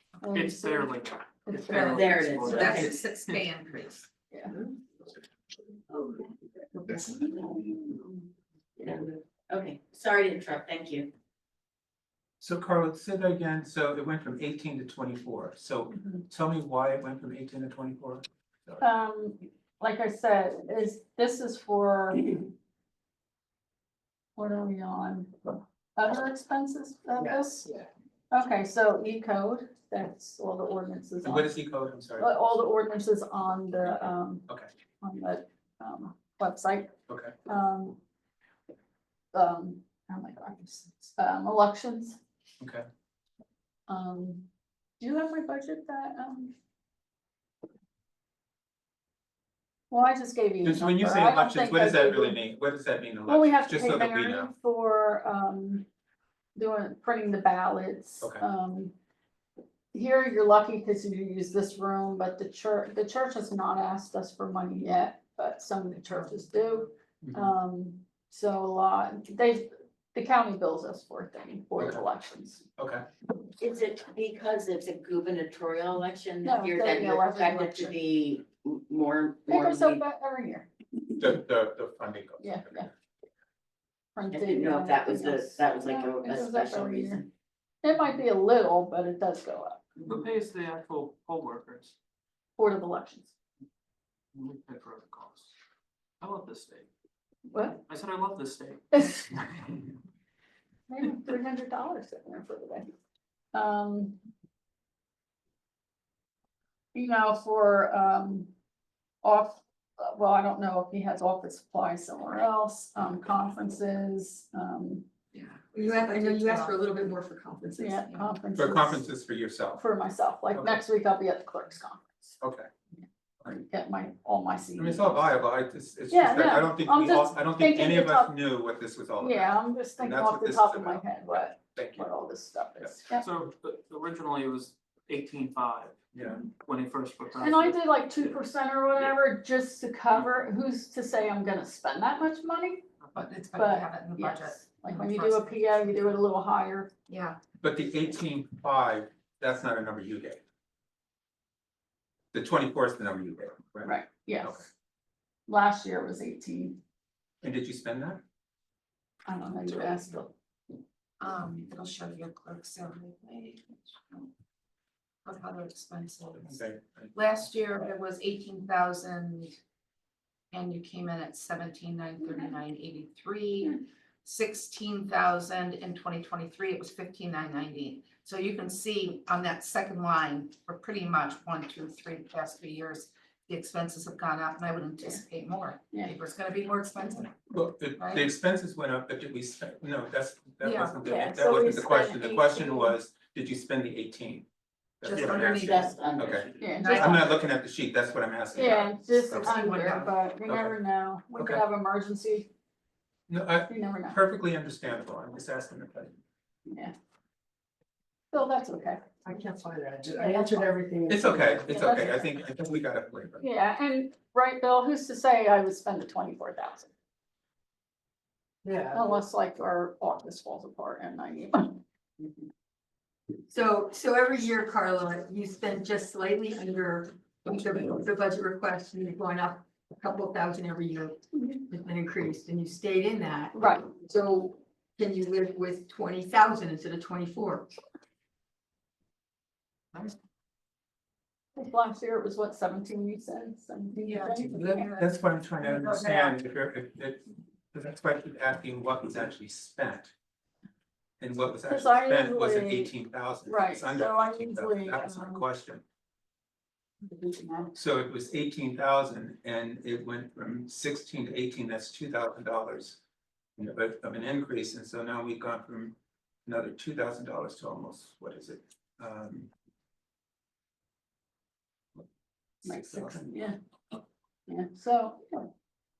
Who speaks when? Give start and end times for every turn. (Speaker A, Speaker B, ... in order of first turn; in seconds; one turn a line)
Speaker A: 0.2-0.9
Speaker B: 0.3-3.1
Speaker A: 1.5-1.9
Speaker C: 1.6-4.1
Speaker D: 1.8-3.0
Speaker A: 4.3-4.5
Speaker D: 5.9-6.2
Speaker D: 6.9-7.7
Speaker A: 7.2-7.6
Speaker D: 8.8-11.1
Speaker E: 12.4-18.9
Speaker A: 18.8-22.5
Speaker A: 24.4-27.6
Speaker A: 28.3-31.6
Speaker E: 31.2-32.5
Speaker A: 32.2-34.5
Speaker A: 35.0-36.9
Speaker E: 37.1-37.3
Speaker A: 37.5-38.0
Speaker A: 39.3-42.2
Speaker E: 42.6-42.9
Speaker A: 43.9-44.5
Speaker A: 45.0-46.5
Speaker A: 49.9-52.4
Speaker E: 50.6-54.5
Speaker A: 53.3-55.9
Speaker A: 56.5-58.9
Speaker A: 59.9-72.6
Speaker E: 67.2-67.5
Speaker E: 71.8-72.0
Speaker E: 72.8-73.0
Speaker D: 73.6-80.0
Speaker A: 76.4-78.0
Speaker A: 79.5-80.7
Speaker E: 81.2-82.8
Speaker A: 82.4-82.9
Speaker A: 84.2-87.2
Speaker D: 84.3-87.3
Speaker A: 87.8-89.8
Speaker B: 90.0-91.9
Speaker A: 92.6-93.3
Speaker B: 94.3-95.5
Speaker B: 96.2-96.9
Speaker A: 97.5-97.8
Speaker B: 97.8-99.8
Speaker A: 98.9-99.2
Speaker A: 100.9-102.9
Speaker A: 103.5-104.2
Speaker A: 106.9-108.5
Speaker A: 109.2-115.0
Speaker C: 115.3-116.9
Speaker F: 115.7-118.0
Speaker A: 117.8-119.1
Speaker C: 118.0-118.3
Speaker E: 118.5-119.9
Speaker A: 119.8-122.3
Speaker E: 120.5-120.8
Speaker E: 122.4-122.7
Speaker A: 123.4-125.3
Speaker E: 124.8-131.1
Speaker A: 126.1-128.4
Speaker A: 129.2-133.3
Speaker E: 131.7-132.1
Speaker B: 133.2-138.3
Speaker E: 136.1-136.4
Speaker A: 137.4-142.8
Speaker C: 143.1-146.2
Speaker A: 143.5-146.9
Speaker C: 147.1-147.4
Speaker E: 147.6-150.4
Speaker E: 152.3-153.9
Speaker A: 153.8-154.7
Speaker A: 155.5-156.8
Speaker E: 157.4-158.2
Speaker A: 159.3-160.3
Speaker C: 161.2-164.3
Speaker C: 165.2-166.6
Speaker E: 166.4-167.1
Speaker C: 167.1-169.6
Speaker C: 170.5-187.4
Speaker E: 187.5-194.5
Speaker C: 188.0-188.3
Speaker C: 190.6-191.1
Speaker A: 191.0-192.9
Speaker E: 195.0-199.6
Speaker C: 195.0-197.4
Speaker D: 195.4-196.5
Speaker A: 196.6-197.3
Speaker A: 198.5-202.5
Speaker C: 198.6-200.1
Speaker E: 200.4-200.8
Speaker E: 201.3-201.6
Speaker E: 203.3-206.2
Speaker A: 203.7-204.2
Speaker A: 206.7-206.9
Speaker A: 208.3-209.0
Speaker G: 209.2-211.8
Speaker A: 210.1-210.8
Speaker E: 211.1-213.4
Speaker A: 211.6-212.3
Speaker A: 213.4-216.9
Speaker G: 218.6-219.0
Speaker A: 218.9-221.8
Speaker F: 223.5-237.7
Speaker A: 233.5-233.8
Speaker A: 241.6-244.9
Speaker C: 244.0-246.3
Speaker E: 244.3-250.1
Speaker E: 251.2-255.8
Speaker A: 251.7-252.9
Speaker A: 253.4-255.4
Speaker A: 257.0-257.7
Speaker E: 257.7-263.0
Speaker E: 263.6-269.5
Speaker A: 272.6-273.6
Speaker E: 272.6-273.3
Speaker A: 274.5-275.5